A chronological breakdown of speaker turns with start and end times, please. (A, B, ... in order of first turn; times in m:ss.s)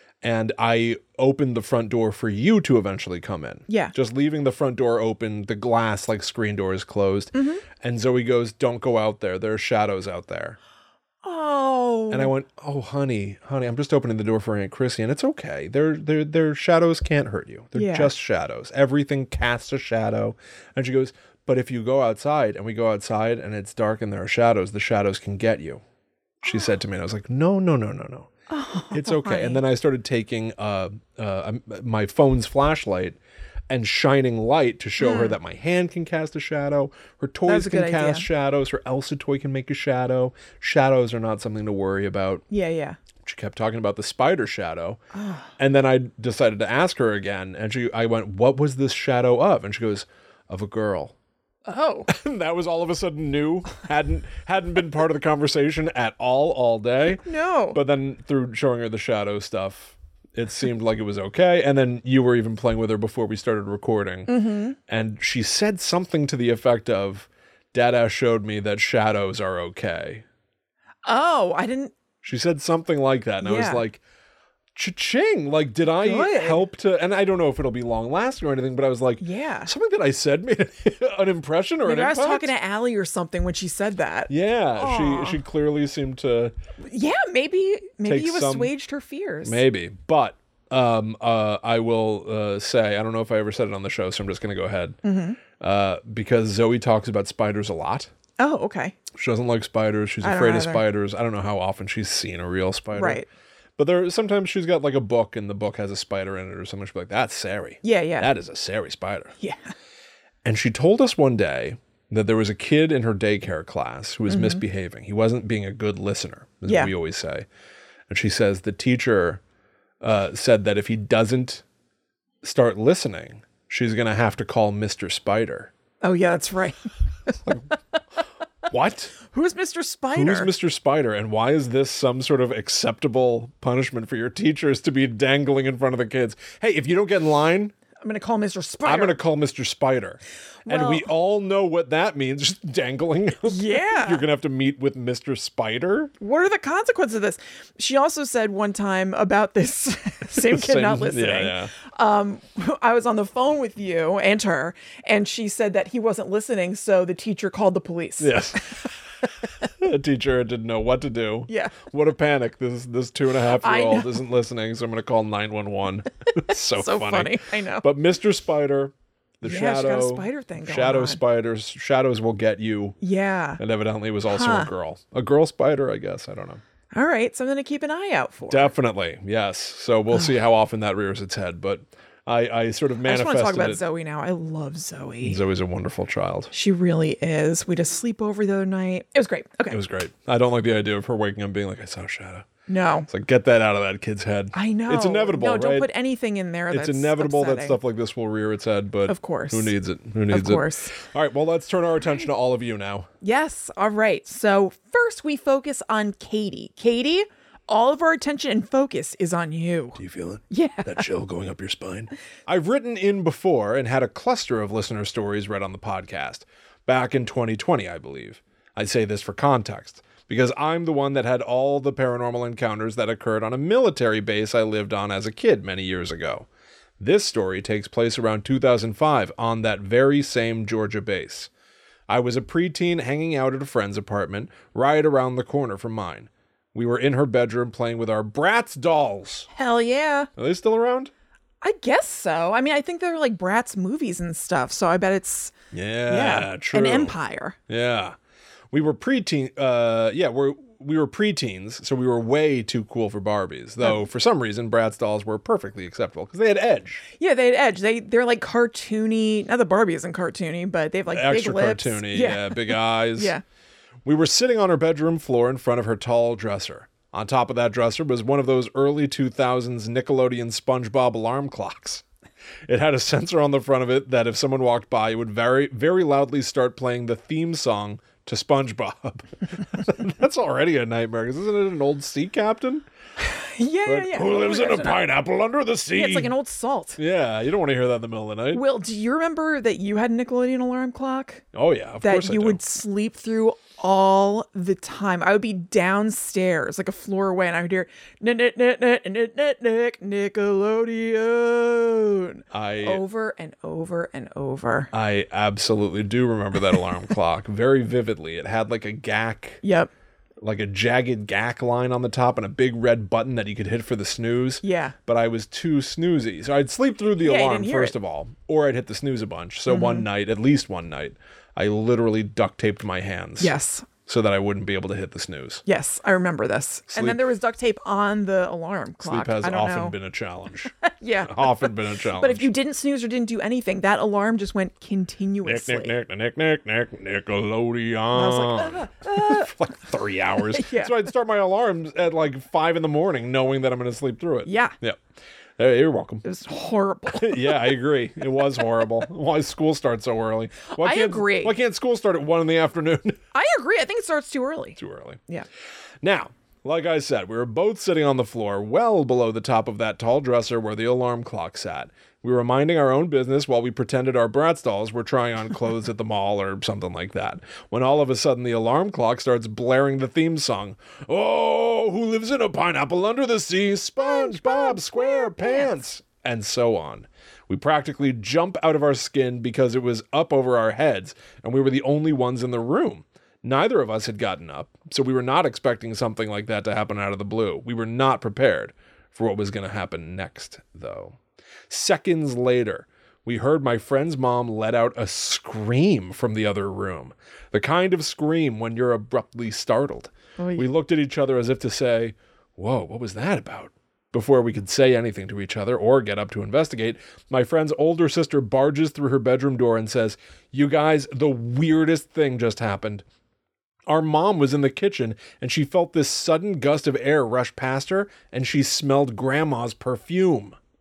0:00.2-0:10.6 A
0:03.7-0:03.9 B
0:07.3-0:07.6 B
0:11.2-0:12.3 B
0:12.1-0:25.8 A
0:17.7-0:18.1 B
0:26.4-0:28.3 A
0:28.5-0:29.6 B
0:28.9-0:33.2 A
0:33.7-0:42.4 A
0:35.0-0:35.4 B
0:37.5-0:38.2 B
0:42.5-0:43.0 B
0:43.2-0:45.0 A
0:45.1-0:45.5 B
0:45.6-0:51.1 A
0:51.6-0:52.1 B
0:52.1-1:04.3 A
0:57.2-0:57.8 B
1:04.3-1:04.8 B
1:04.9-1:10.2 A
1:11.0-1:11.9 B
1:12.2-1:14.0 A
1:13.4-1:13.8 B
1:14.7-1:22.5 A
1:16.0-1:16.6 B
1:19.2-1:19.7 B
1:21.8-1:25.4 B
1:24.3-1:26.5 A
1:26.8-1:29.6 B
1:28.0-1:28.7 A
1:29.4-1:35.0 A
1:35.0-1:35.4 B
1:35.6-1:38.1 A
1:38.4-1:39.0 B
1:39.1-1:43.2 A
1:40.2-1:40.8 B
1:42.9-1:43.3 B
1:43.8-1:49.3 A
1:47.8-1:48.3 B
1:49.4-1:49.7 B
1:50.4-1:57.4 A
1:54.3-1:54.6 B
1:58.1-1:59.4 A
2:00.0-2:01.6 A
2:02.4-2:05.7 A
2:06.0-2:07.8 B
2:08.7-2:09.2 A
2:09.2-2:10.5 B
2:10.1-2:17.7 A
2:18.0-2:19.2 B
2:18.8-2:26.1 A
2:20.6-2:21.0 B
2:23.5-2:24.2 B
2:26.2-2:38.8 B
2:30.4-2:31.7 A
2:38.2-2:38.9 A
2:39.6-2:53.0 A
2:41.5-2:41.7 B
2:43.5-2:44.2 B
2:46.5-2:47.8 B
2:49.4-2:51.2 B
2:53.0-2:53.6 B
2:53.6-2:56.6 A
2:54.3-2:54.7 B
2:56.9-2:58.7 B
2:58.5-3:03.8 A
3:03.0-3:05.4 B
3:05.2-3:06.5 A
3:06.5-3:09.8 B
3:09.7-3:12.5 A
3:12.7-3:13.1 B
3:13.1-3:15.9 A
3:14.5-3:17.8 B
3:16.7-3:23.1 A
3:19.1-3:19.7 B
3:20.3-3:20.9 B
3:23.2-3:30.0 B
3:30.0-3:46.5 A
3:30.5-3:31.0 B
3:47.0-3:51.5 A
3:52.1-3:59.5 A
3:59.5-4:00.3 B
4:00.4-4:01.1 A
4:01.6-4:05.5 B
4:05.7-4:07.2 A
4:06.1-4:07.6 B
4:07.7-4:08.2 A
4:08.7-4:17.0 A
4:17.2-4:23.4 B
4:21.1-4:23.3 A
4:24.0-4:32.0 A
4:32.7-4:42.8 A
4:43.2-4:45.0 B
4:43.8-4:46.3 A
4:45.9-4:47.0 B
4:47.0-4:48.6 A
4:48.5-4:51.4 B
4:51.5-4:52.6 A
4:52.0-5:04.9 B
5:02.5-5:03.0 A
5:04.9-5:09.6 A
5:09.6-5:09.9 B
5:10.4-5:23.5 A
5:14.6-5:15.0 B
5:17.2-5:17.9 B
5:19.7-5:20.1 B
5:23.4-5:23.9 B
5:24.0-5:25.6 A
5:25.6-5:30.0 B
5:26.9-5:27.2 A
5:29.0-5:32.5 A
5:30.7-5:35.9 B
5:35.4-5:45.0 A
5:38.1-5:39.5 B
5:40.5-5:41.1 B
5:44.4-5:44.7 B
5:45.6-5:46.2 A
5:46.2-5:47.7 B
5:47.1-5:53.2 A
5:50.7-5:51.5 B
5:53.3-5:55.4 B
5:54.8-5:55.2 A
5:56.0-6:31.2 A
6:14.0-6:15.7 B
6:31.7-6:53.0 A
6:40.4-6:40.6 B
6:53.9-7:00.6 A